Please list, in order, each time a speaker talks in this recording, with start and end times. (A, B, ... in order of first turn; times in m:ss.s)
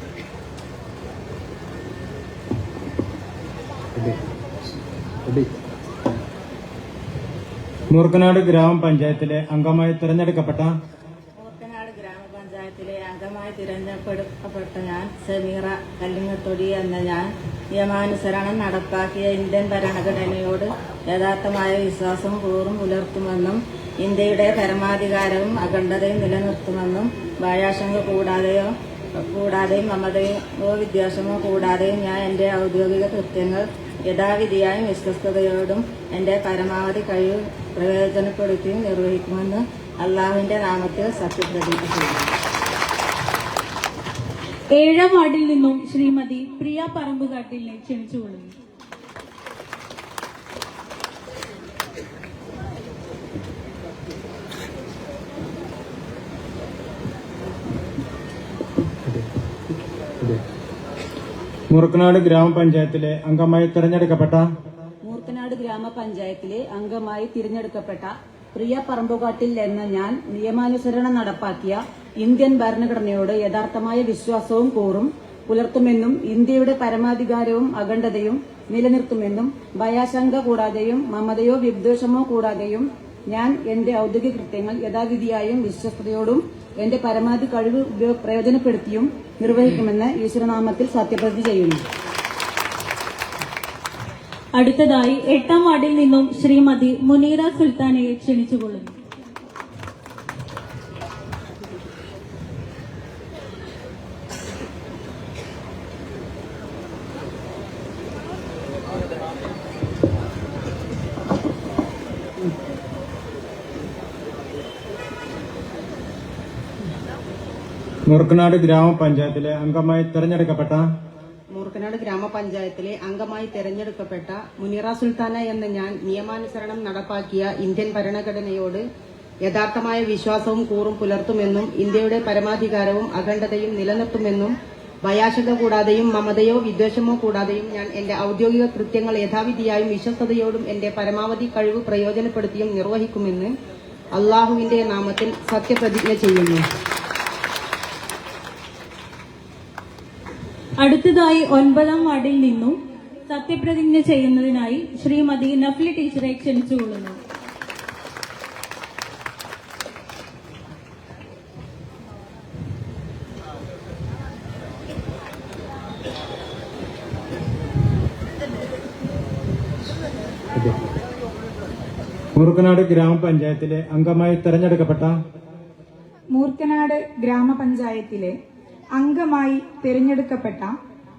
0:07.9-0:10.7 A
0:11.4-0:42.2 B
0:44.7-0:48.5 C
1:01.7-1:04.5 A
1:05.0-1:31.8 D
1:34.6-1:38.9 C
1:58.1-2:00.8 A
2:01.5-2:08.8 E
2:09.4-2:23.5 E
2:24.1-2:26.6 E
2:30.8-2:32.8 C
2:33.3-2:37.2 C
2:52.4-2:55.2 A
2:56.3-2:58.4 F
2:58.9-3:00.8 F